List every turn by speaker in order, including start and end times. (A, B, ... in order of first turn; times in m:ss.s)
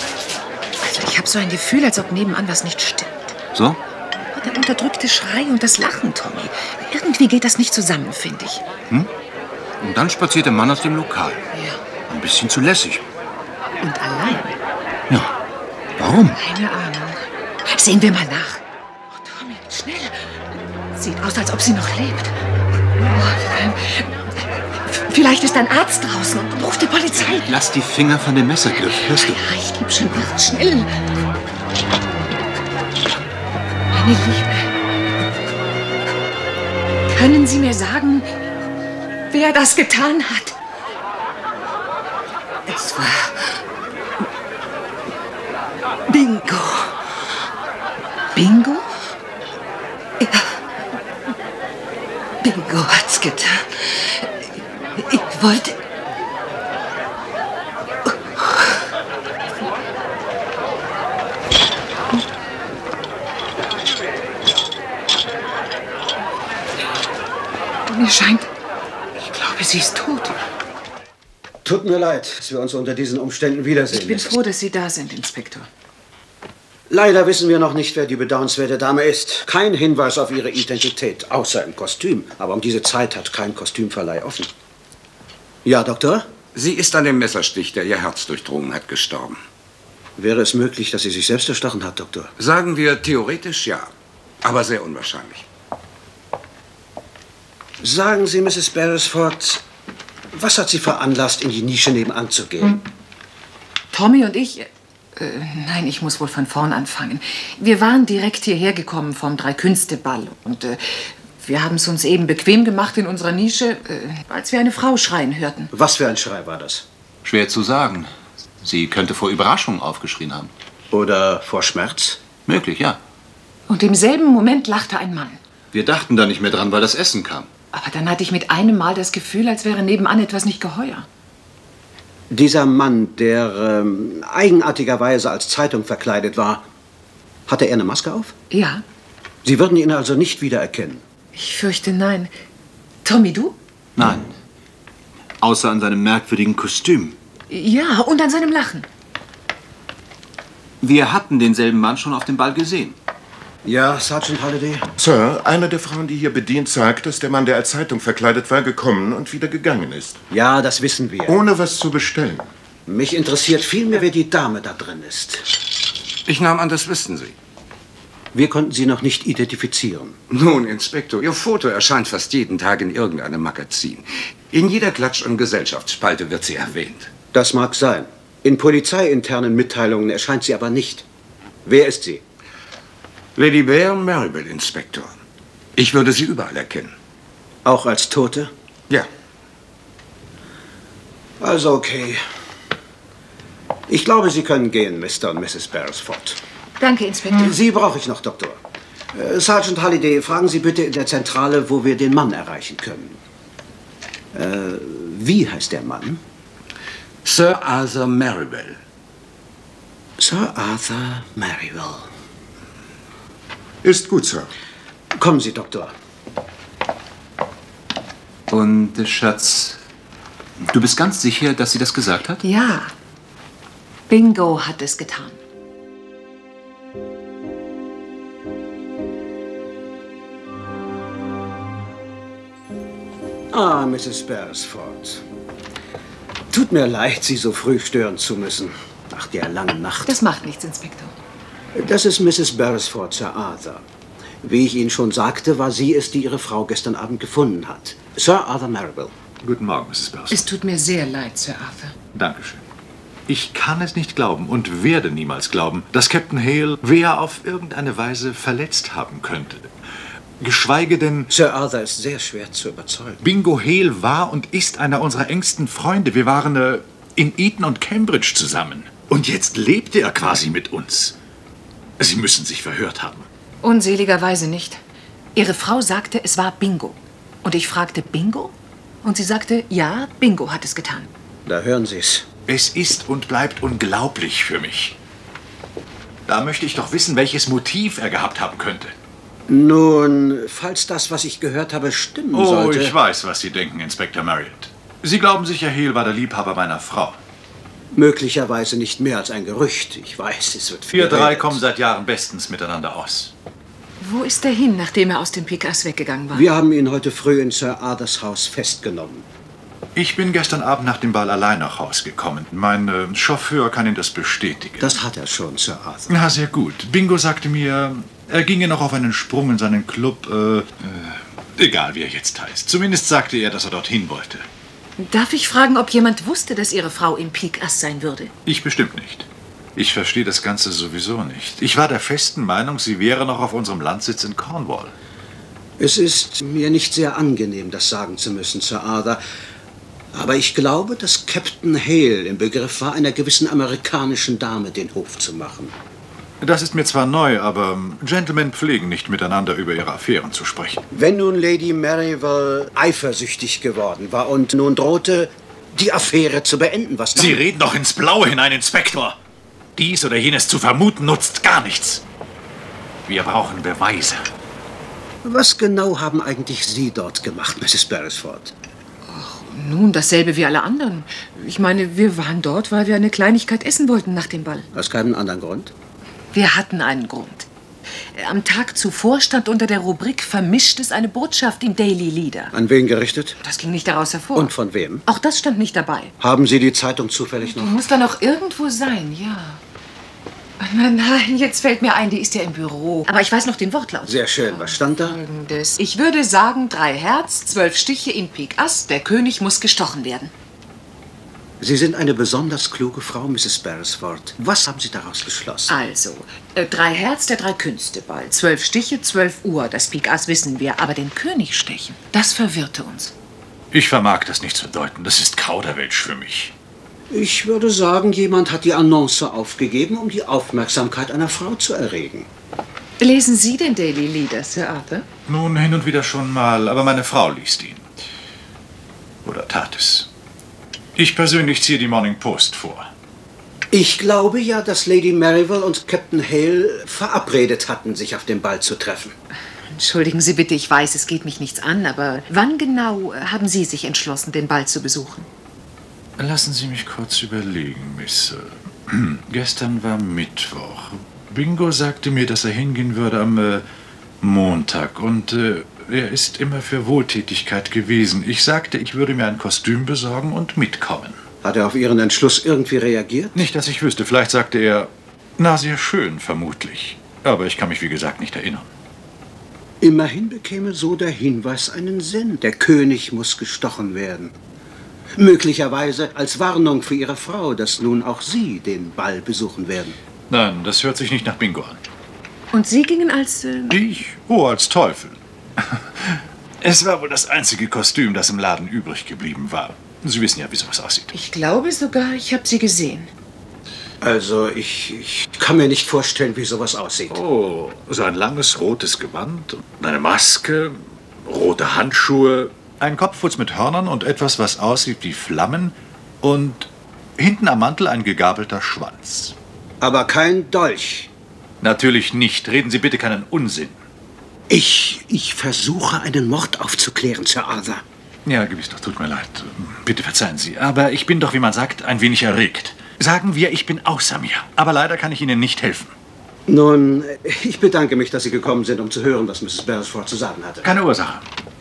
0:00.8-0:03.3 A
0:03.6-0:03.8 B
0:04.3-0:08.6 A
0:09.8-0:11.4 B
0:11.5-0:11.8 A
0:12.1-0:13.0 B
0:13.8-0:14.6 A
0:16.0-0:16.4 B
0:16.3-0:18.6 A
0:19.1-0:20.2 A
0:20.9-0:22.3 A
0:23.0-0:24.1 A
0:24.8-0:27.5 A
0:27.3-0:29.4 B
0:28.9-0:30.9 A
0:33.9-0:34.7 A
0:37.1-0:38.3 A
0:39.3-0:40.6 A
0:42.7-0:43.6 A
0:46.1-0:46.9 A
0:48.4-0:48.9 A
0:50.2-0:50.6 A
0:52.4-0:54.4 A
0:55.0-0:55.8 A
0:58.1-0:58.6 A
1:07.9-1:08.5 A
1:09.2-1:10.4 A
1:11.6-1:14.4 C
1:13.9-1:15.7 A
1:16.9-1:24.5 C
1:25.6-1:26.3 C
1:26.6-1:29.4 D
1:30.2-1:32.3 C
1:32.4-1:33.9 D
1:34.4-1:35.4 D
1:37.8-1:39.6 C
1:40.3-1:42.8 C
1:43.9-1:55.7 A
1:55.7-1:56.8 C
1:57.2-1:58.1 B
1:58.6-2:00.5 B
2:00.9-2:02.2 C
2:02.4-2:03.0 B
2:03.7-2:05.4 A
2:05.7-2:07.5 B
2:07.7-2:11.1 A
2:12.3-2:16.6 C
2:17.5-2:18.3 C
2:18.5-2:18.8 A
2:19.4-2:21.0 C
2:21.4-2:22.3 A
2:23.0-2:23.6 A
2:24.0-2:24.3 B
2:25.4-2:27.2 B
2:27.5-2:28.9 A
2:30.8-2:33.0 B
2:33.6-2:34.9 C
2:35.0-2:40.2 E
2:40.3-2:41.4 C
2:41.2-2:42.5 E
2:42.9-2:45.5 C
2:46.2-2:47.4 D
2:48.3-2:50.2 C
2:50.3-2:57.1 D
2:57.3-3:01.0 C
3:01.6-3:02.2 C
3:03.4-3:05.2 D
3:05.8-3:06.9 D
3:07.6-3:08.5 C
3:11.4-3:12.2 C
3:13.9-3:16.4 C
3:16.8-3:17.5 A
3:17.3-3:18.6 C
3:19.1-3:23.2 C
3:24.3-3:26.2 C
3:27.2-3:28.8 D
3:30.2-3:32.1 C
3:33.8-3:34.5 E
3:35.2-3:35.9 C
3:38.5-3:39.8 B
3:40.7-3:42.4 B
3:42.4-3:42.9 A
3:44.1-3:45.4 A
3:53.5-3:55.2 C
3:56.5-4:00.2 C
4:00.0-4:01.1 A
4:01.8-4:03.8 C
4:04.4-4:09.1 C
4:09.4-4:10.4 F
4:10.3-4:12.0 A
4:12.1-4:12.6 F
4:13.3-4:19.7 F
4:20.4-4:21.3 F
4:21.3-4:23.2 C
4:23.2-4:31.2 F
4:32.0-4:33.3 F
4:33.6-4:34.8 A
4:35.4-4:41.1 A
4:41.5-4:42.2 C
4:42.5-4:45.0 F
4:46.3-4:48.9 F
4:49.5-4:53.0 C
4:52.3-4:57.2 F
4:57.9-5:01.6 C
5:00.9-5:03.3 F
5:04.0-5:06.5 A
5:06.3-5:09.2 C
5:10.0-5:15.0 F
5:14.8-5:16.3 C
5:16.1-5:24.5 F
5:25.0-5:28.3 A
5:28.5-5:34.9 F
5:35.8-5:39.2 C
5:40.1-5:45.7 C
5:46.4-5:50.8 F
5:50.9-5:57.4 C
5:57.2-5:59.2 F
5:59.8-6:02.0 F
6:03.1-6:04.3 F
6:05.2-6:08.5 C
6:09.1-6:14.7 A
6:14.7-6:15.7 C
6:16.3-6:17.5 A
6:18.1-6:22.5 A
6:22.5-6:23.4 C
6:23.4-6:24.5 A
6:24.4-6:25.0 C
6:25.0-6:26.1 A
6:26.2-6:27.8 C
6:27.4-6:29.6 A
6:30.6-6:40.3 A
6:34.0-6:35.2 C
6:41.6-6:45.8 C
6:45.7-6:53.1 A
6:53.7-6:56.5 F
6:57.1-7:02.3 C
7:03.0-7:05.0 A
7:05.3-7:07.9 F
7:09.2-7:10.1 F
7:11.0-7:12.9 F
7:13.7-7:19.1 C
7:19.7-7:25.3 A
7:26.2-7:33.6 F
7:34.2-7:41.2 F
7:41.4-7:43.3 C
7:43.4-7:48.7 F
7:49.8-7:54.3 C
7:55.2-8:00.0 C
8:00.3-8:01.8 F
8:02.5-8:03.8 A
8:03.7-8:11.1 F
8:11.1-8:13.1 A
8:14.0-8:17.2 C
8:17.1-8:29.4 F
8:29.8-8:31.1 C
8:31.6-8:33.8 F
8:34.5-8:37.8 C
8:38.2-8:45.9 F
8:46.5-8:50.7 C
8:50.6-8:51.2 F